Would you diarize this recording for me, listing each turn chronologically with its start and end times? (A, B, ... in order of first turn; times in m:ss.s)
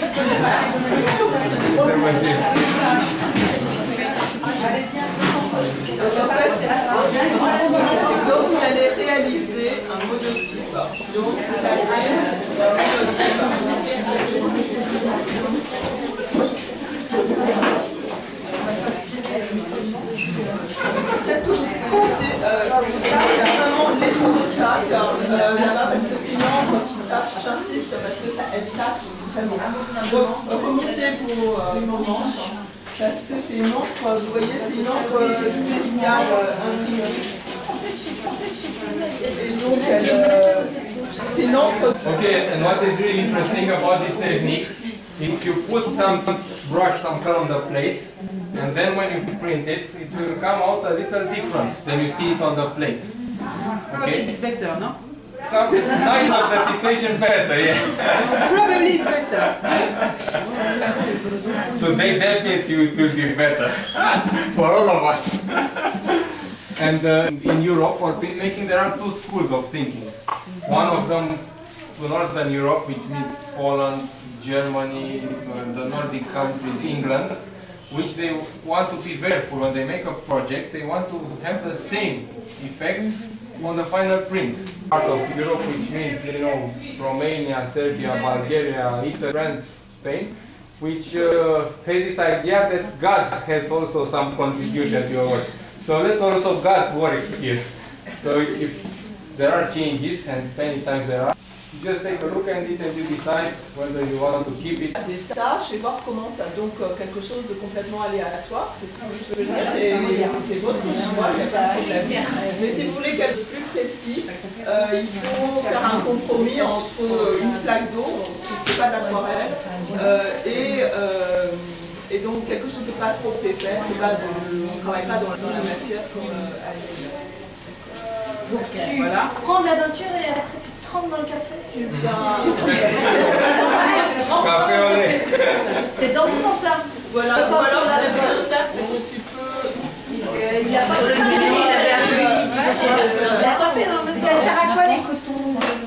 0:01.6-0:02.5 A
0:06.0-0:07.3 B
0:07.3-0:08.2 C
0:08.0-0:15.0 B
0:19.4-0:19.8 D
0:21.3-0:37.3 B
0:37.6-0:40.2 C
0:39.3-0:42.3 B
0:42.0-0:53.1 A
0:53.9-0:54.4 A
0:54.3-0:54.9 D
0:55.4-1:00.1 A
0:58.4-0:59.5 D
1:01.7-1:06.1 A
1:06.7-1:44.9 A
1:44.9-2:07.9 B
2:08.4-2:11.6 C
2:11.7-2:13.6 B
2:11.9-2:15.8 A
2:12.6-2:13.2 C
2:15.9-2:18.4 C
2:17.1-2:19.8 B
2:20.6-2:23.5 B
2:20.6-2:24.9 C
2:24.5-2:24.9 D